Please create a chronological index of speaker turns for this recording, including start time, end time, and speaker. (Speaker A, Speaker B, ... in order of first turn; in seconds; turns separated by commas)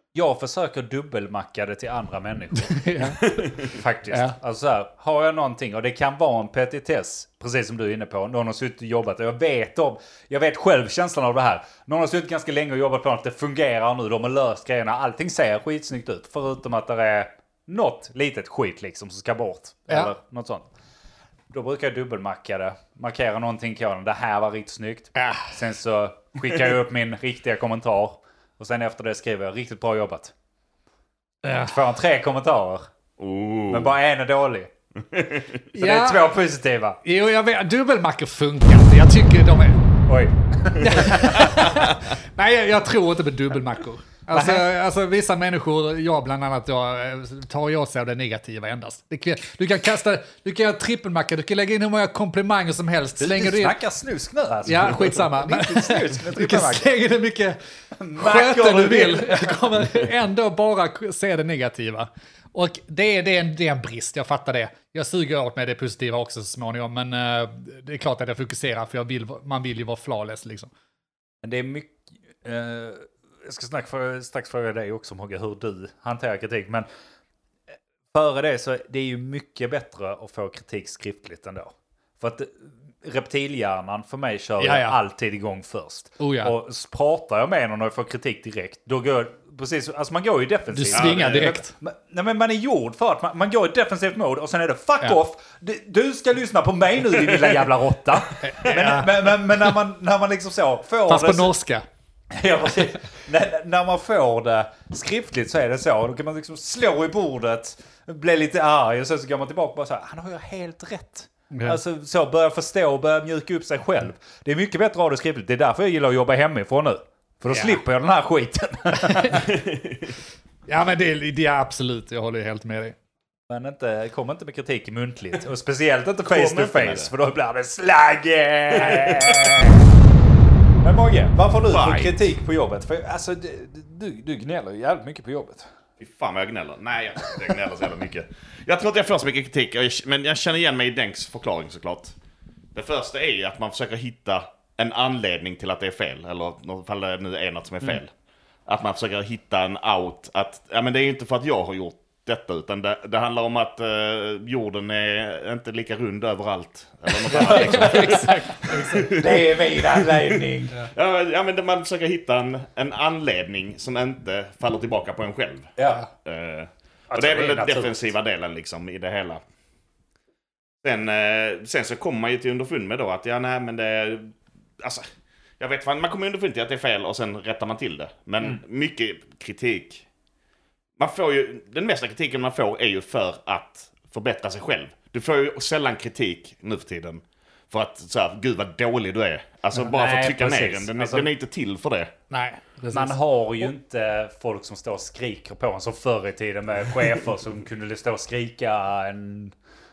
Speaker A: 0.1-20.7, Speaker B: 2.6-3.6, Speaker B: 4.1-4.3, Speaker A: 21.5-30.3, Speaker B: 25.1-25.5, Speaker B: 31.4-31.8, Speaker A: 31.6-32.9, Speaker C: 33.2-33.9, Speaker A: 33.7-34.7, Speaker C: 35.1-35.6, Speaker A: 35.7-37.0, Speaker B: 35.7-36.4, Speaker B: 37.0-39.8, Speaker A: 40.1-41.7, Speaker B: 40.8-53.7, Speaker A: 44.3-44.7, Speaker A: 53.2-56.9, Speaker B: 54.6-57.6, Speaker A: 58.0-59.6, Speaker B: 58.2-70.7, Speaker A: 71.4-76.9, Speaker A: 78.1-101.5, Speaker B: 84.6-85.0, Speaker B: 86.2-86.5, Speaker B: 90.7-91.7, Speaker C: 90.9-91.5, Speaker B: 98.4-99.7, Speaker B: 101.1-101.8, Speaker A: 102.3-119.5, Speaker B: 111.5-111.8, Speaker B: 117.5-117.8, Speaker B: 119.0-119.5, Speaker C: 119.5-120.1, Speaker B: 120.7-123.0, Speaker A: 123.5-129.9, Speaker C: 126.2-127.1, Speaker C: 128.7-129.6, Speaker A: 130.8-135.7, Speaker C: 131.7-132.3, Speaker C: 136.0-142.1, Speaker C: 142.7-148.1, Speaker C: 148.7-169.4, Speaker B: 157.3-159.2, Speaker A: 157.3-158.2, Speaker A: 159.1-160.9, Speaker A: 165.8-166.1, Speaker A: 167.1-168.1, Speaker C: 170.8-175.1, Speaker C: 175.6-180.0, Speaker C: 181.0-192.1, Speaker A: 189.7-191.3, Speaker B: 192.3-193.7, Speaker A: 192.9-199.5